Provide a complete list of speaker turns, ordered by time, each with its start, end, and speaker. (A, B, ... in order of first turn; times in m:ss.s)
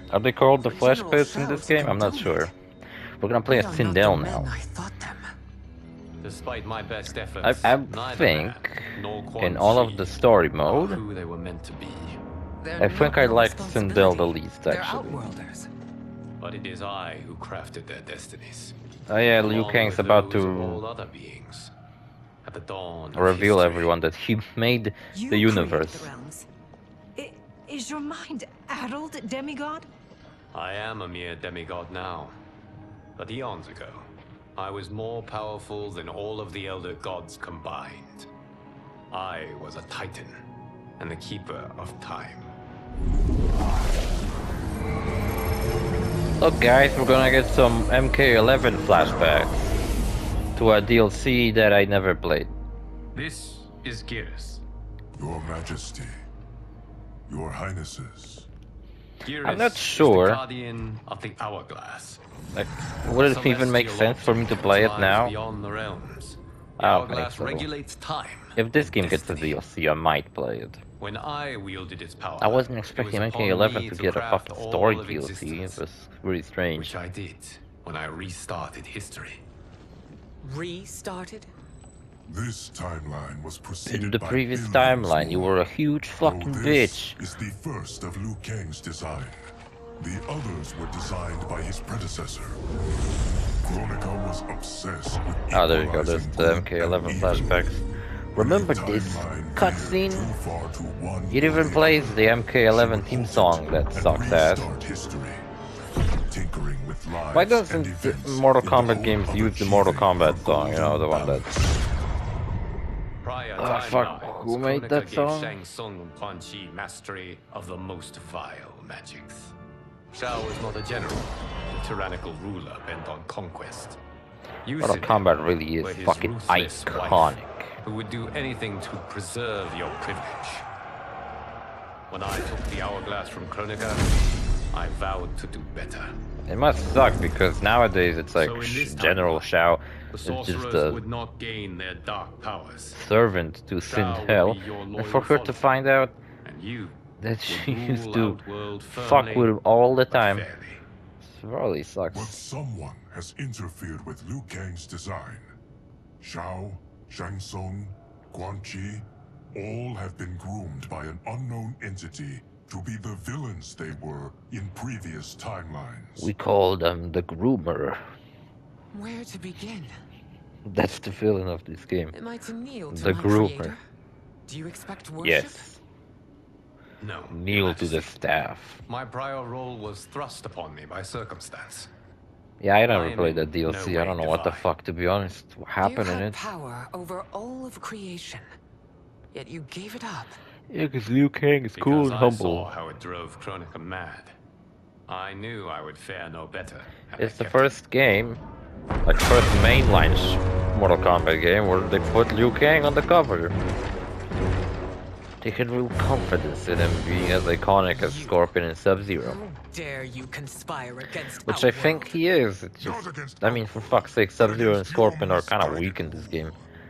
0:00.1-0:02.5 A
0:00.6-0:02.5 B
0:03.2-0:04.6 A
0:03.4-0:05.2 B
0:06.2-0:12.2 C
0:07.4-0:11.0 A
0:12.6-0:15.7 B
0:12.8-0:15.2 A
0:16.4-0:18.7 C
0:19.1-0:20.8 A
0:19.3-0:21.7 C
0:22.4-0:23.9 C
0:23.1-0:26.1 A
0:25.1-0:26.4 D
0:25.8-0:26.4 B
0:27.2-0:29.9 D
0:30.5-0:32.4 C
0:33.2-0:38.3 C
0:39.1-0:40.4 C
0:41.0-0:42.5 C
0:46.4-0:49.7 A
0:50.6-0:52.5 A
0:53.1-0:54.6 C
0:55.2-0:56.1 E
0:57.3-0:58.5 E
0:59.2-1:02.2 C
0:59.4-1:00.4 A
1:02.5-1:05.4 A
1:03.1-1:09.6 C
1:06.8-1:07.7 A
1:08.6-1:10.8 A
1:11.0-1:15.8 C
1:12.4-1:17.0 A
1:16.7-1:19.4 C
1:20.4-1:21.5 B
1:22.2-1:25.6 E
1:23.8-1:27.2 A
1:26.2-1:29.4 E
1:30.0-1:32.6 E
1:33.6-1:37.8 E
1:35.5-1:37.8 A
1:38.3-1:40.3 A
1:38.4-1:45.4 E
1:41.3-1:44.7 A
1:46.3-1:51.7 E
1:47.3-1:51.5 A
1:53.2-1:59.5 C
1:53.6-1:55.6 A
2:00.1-2:04.0 C
2:04.6-2:10.6 C
2:04.8-2:07.8 A
2:12.1-2:14.0 C
2:14.7-2:16.1 C
2:16.5-2:21.0 A
2:18.3-2:19.5 C
2:20.1-2:23.0 C
2:22.9-2:26.2 A
2:23.8-2:25.7 C
2:26.4-2:29.5 C
2:27.2-2:30.5 A
2:30.1-2:30.8 C
2:31.2-2:32.4 A
2:32.1-2:35.5 E
2:36.2-2:46.3 E
2:46.2-2:48.0 A
2:48.9-2:49.9 B
2:50.6-2:52.1 A
2:52.1-2:53.8 B
2:52.9-2:53.8 A
2:54.5-2:55.7 B
2:55.2-2:55.8 A
2:57.0-2:58.3 C
2:57.3-2:58.8 A
2:58.8-3:01.9 C
3:02.6-3:06.4 A
3:02.9-3:04.7 C
3:05.8-3:08.5 B
3:09.3-3:10.4 B
3:10.7-3:12.7 A
3:11.7-3:14.3 C
3:15.1-3:17.7 C
3:17.2-3:18.4 A
3:19.0-3:23.6 A
3:25.4-3:29.4 A
3:27.9-3:28.4 B
3:29.2-3:32.2 B
3:31.5-3:36.5 A
3:32.8-3:36.6 E